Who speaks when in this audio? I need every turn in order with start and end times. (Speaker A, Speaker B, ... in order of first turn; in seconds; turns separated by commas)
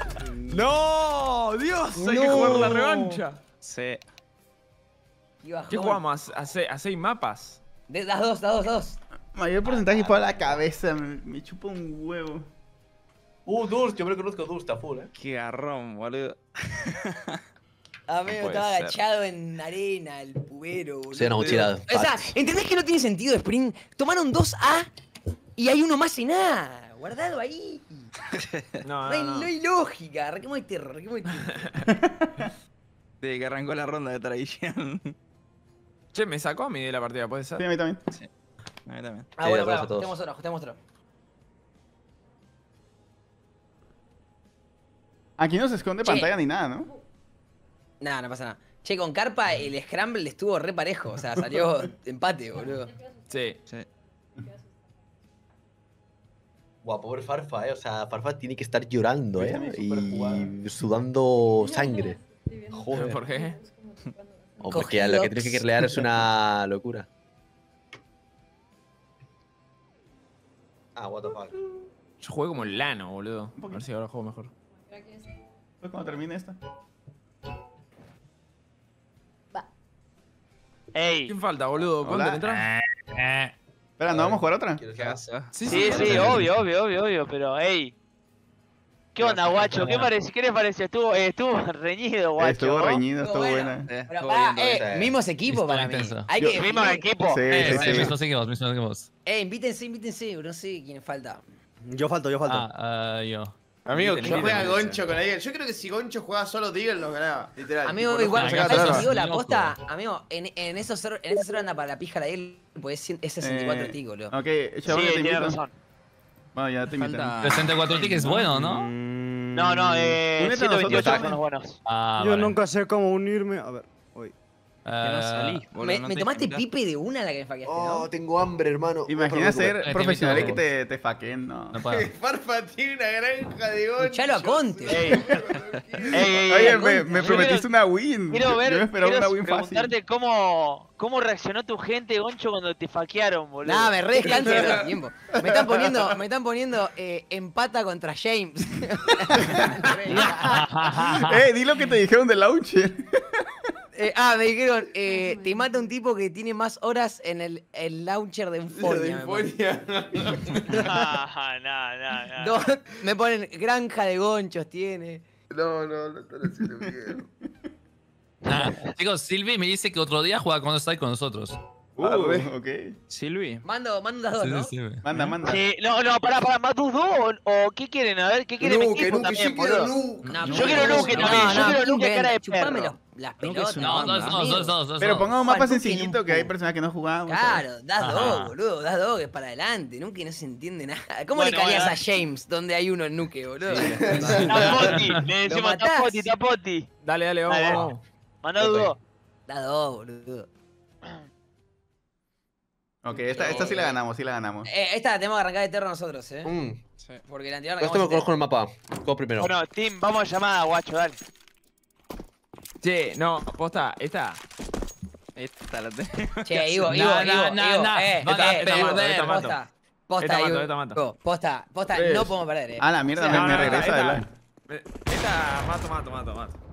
Speaker A: 0.2-0.7, Speaker B: 0.5-3.4, Speaker C: 2.0-2.8, Speaker D: 2.2-2.8, Speaker E: 3.6-4.0, Speaker C: 5.4-6.0, Speaker B: 5.7-7.6, Speaker C: 7.9-9.0, Speaker F: 9.3-12.5, Speaker D: 13.5-15.1, Speaker E: 15.2-17.4, Speaker C: 18.1-24.9, Speaker B: 18.3-19.0, Speaker D: 21.1-22.3, Speaker C: 25.6-28.1, Speaker E: 28.4-28.8, Speaker B: 28.8-29.5, Speaker C: 29.1-31.7, Speaker B: 31.4-31.7, Speaker F: 31.9-32.5, Speaker E: 33.2-35.1, Speaker B: 36.1-37.6, Speaker F: 37.6-38.0, Speaker E: 38.9-39.3, Speaker C: 39.4-40.8, Speaker D: 39.4-40.1, Speaker F: 45.4-46.9, Speaker C: 46.0-46.3, Speaker C: 48.0-52.9, Speaker B: 53.3-53.6, Speaker D: 56.8-62.2, Speaker F: 59.4-60.5, Speaker D: 62.7-63.2, Speaker B: 62.9-63.6, Speaker D: 64.6-67.1, Speaker C: 64.7-65.7, Speaker D: 71.0-71.6, Speaker B: 72.2-74.5, Speaker F: 75.8-76.6, Speaker G: 80.9-81.3, Speaker B: 81.3-82.7, Speaker F: 82.0-82.4, Speaker H: 83.0-83.5, Speaker F: 84.0-84.8, Speaker D: 84.1-86.4, Speaker E: 84.9-85.6, Speaker B: 85.5-86.4, Speaker G: 85.7-87.9, Speaker H: 85.9-86.5, Speaker G: 89.2-93.0, Speaker D: 89.2-90.1, Speaker F: 92.4-93.9, Speaker C: 93.2-97.1, Speaker E: 93.8-94.8, Speaker D: 94.7-95.2, Speaker H: 95.5-96.4, Speaker G: 96.5-98.1, Speaker F: 97.3-98.2, Speaker H: 97.5-99.1, Speaker C: 99.3-101.4, Speaker A: 101.8-102.7, Speaker H: 102.5-103.6, Speaker I: 103.9-109.1, Speaker B: 103.9-105.0, Speaker C: 104.3-104.6, Speaker C: 107.8-114.3, Speaker H: 108.3-109.8, Speaker F: 113.4-115.6, Speaker G: 114.8-115.7, Speaker F: 116.5-117.6, Speaker E: 117.0-117.8, Speaker H: 117.4-118.9, Speaker A: 118.3-120.0, Speaker G: 119.5-121.8, Speaker F: 120.4-121.4, Speaker D: 120.8-121.4, Speaker H: 121.8-122.6, Speaker A: 122.2-124.3, Speaker H: 124.8-125.7, Speaker E: 125.0-126.6, Speaker C: 125.8-128.1, Speaker D: 127.7-130.6, Speaker F: 129.1-131.8, Speaker H: 129.8-130.6, Speaker H: 131.7-132.1, Speaker I: 131.9-136.4, Speaker C: 134.0-135.1, Speaker G: 134.9-135.3, Speaker G: 136.1-137.7, Speaker F: 136.4-139.9, Speaker C: 136.4-137.6, Speaker G: 138.3-144.7, Speaker C: 143.6-150.7, Speaker I: 144.2-144.9, Speaker F: 145.4-145.7, Speaker F: 149.3-149.7, Speaker E: 149.6-150.3, Speaker H: 150.1-151.5, Speaker F: 151.1-153.2, Speaker C: 153.9-159.5, Speaker I: 158.8-160.9, Speaker G: 160.7-162.7, Speaker C: 162.4-165.2, Speaker I: 165.5-167.2, Speaker G: 168.4-168.9, Speaker H: 168.4-171.6, Speaker I: 172.0-172.5, Speaker F: 172.0-172.9, Speaker E: 173.1-173.6, Speaker C: 173.6-174.7, Speaker H: 174.4-175.3, Speaker F: 175.0-175.6, Speaker G: 175.4-179.9, Speaker I: 178.6-181.3, Speaker C: 180.3-186.5, Speaker G: 180.5-182.9, Speaker H: 181.1-181.8, Speaker E: 183.4-184.7, Speaker H: 183.8-185.3, Speaker F: 185.0-187.7, Speaker C: 187.3-196.3, Speaker H: 188.0-188.6, Speaker G: 191.3-192.0, Speaker D: 193.7-194.8, Speaker I: 194.0-194.6, Speaker G: 194.4-196.9, Speaker H: 194.8-195.3, Speaker B: 197.0-198.0, Speaker G: 197.5-197.9, Speaker G: 198.4-199.0, Speaker D: 198.6-198.9, Speaker C: 199.5-200.5, Speaker F: 203.0-204.7, Speaker C: 203.3-204.0, Speaker C: 204.7-206.5, Speaker D: 206.4-206.8, Speaker C: 207.3-208.3, Speaker D: 207.8-209.6, Speaker G: 209.4-211.2, Speaker B: 212.8-214.4, Speaker E: 215.4-216.9, Speaker C: 216.5-223.9, Speaker H: 216.9-219.5, Speaker B: 218.3-219.6, Speaker B: 220.2-221.0, Speaker D: 222.0-222.2, Speaker F: 222.8-224.3, Speaker B: 223.2-226.6